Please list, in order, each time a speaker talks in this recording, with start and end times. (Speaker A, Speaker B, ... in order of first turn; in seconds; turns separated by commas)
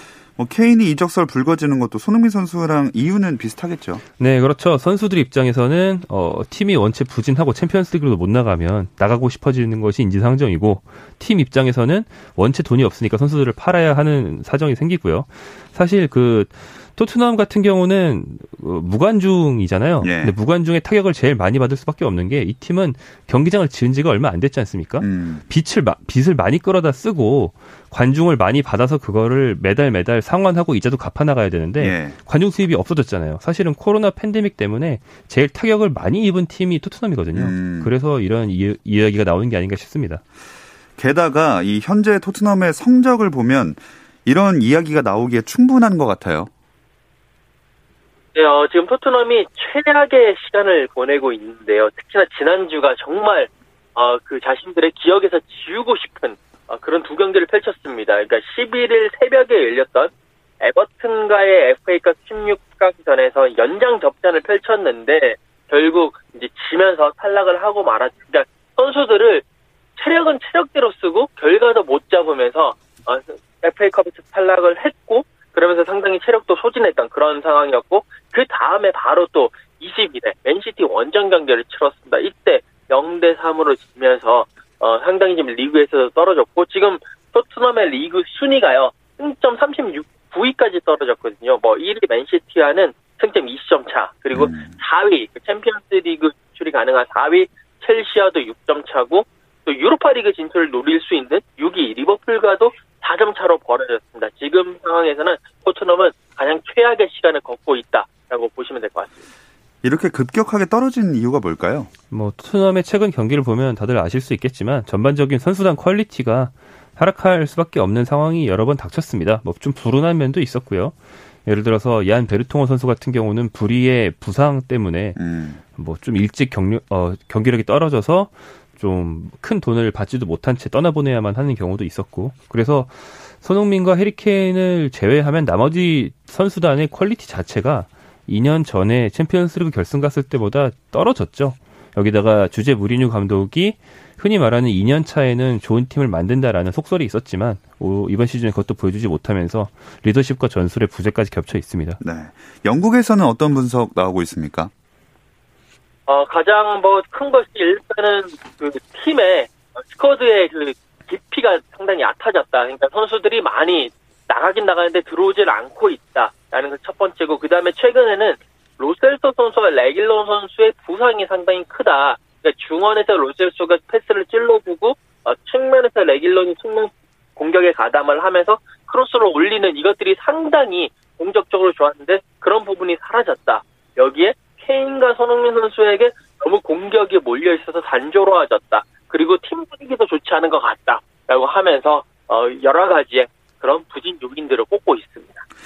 Speaker A: 0.4-4.0, Speaker B: 4.2-40.2, Speaker A: 20.0-20.4, Speaker A: 25.0-25.4, Speaker A: 31.8-32.1, Speaker A: 37.3-37.9, Speaker A: 41.0-46.5, Speaker C: 48.4-69.5, Speaker C: 70.0-109.2, Speaker A: 94.3-94.8, Speaker A: 109.8-111.9, Speaker B: 112.1-121.0, Speaker B: 121.5-125.2, Speaker A: 125.2-125.6, Speaker B: 125.8-152.0, Speaker A: 152.0-154.7, Speaker C: 156.1-195.4